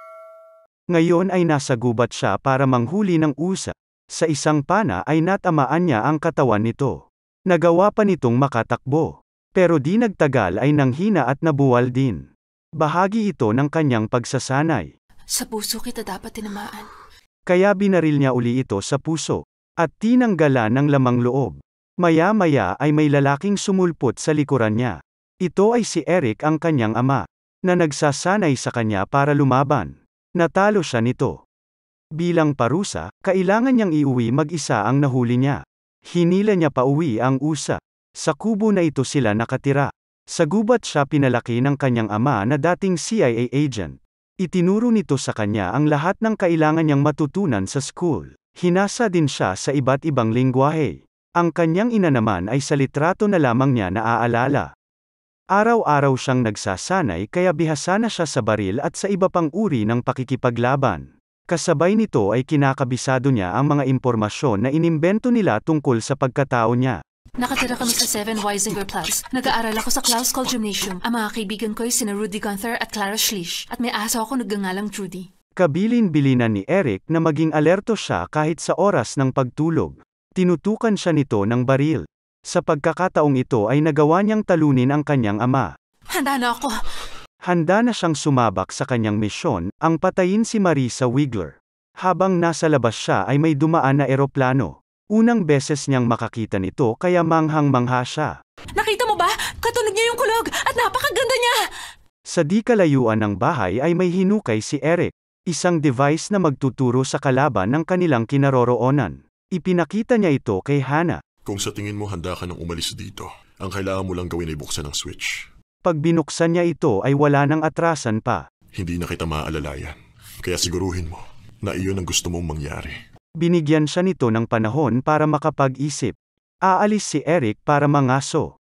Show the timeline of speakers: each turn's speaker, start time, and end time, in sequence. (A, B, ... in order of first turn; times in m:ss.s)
0:00.9-0:12.2 A
0:12.8-0:14.9 A
0:15.3-0:16.9 B
0:17.5-0:31.4 A
0:32.2-0:35.6 A
0:36.1-0:54.7 A
0:55.6-1:07.0 A
1:07.4-1:15.3 B
1:15.6-1:25.7 A
1:26.1-1:27.1 B
1:27.4-1:38.3 A
1:38.8-1:41.6 B
1:42.3-1:51.2 A
1:51.4-1:55.4 C
1:55.8-1:58.4 A
1:58.7-2:03.0 C
2:03.4-2:08.5 A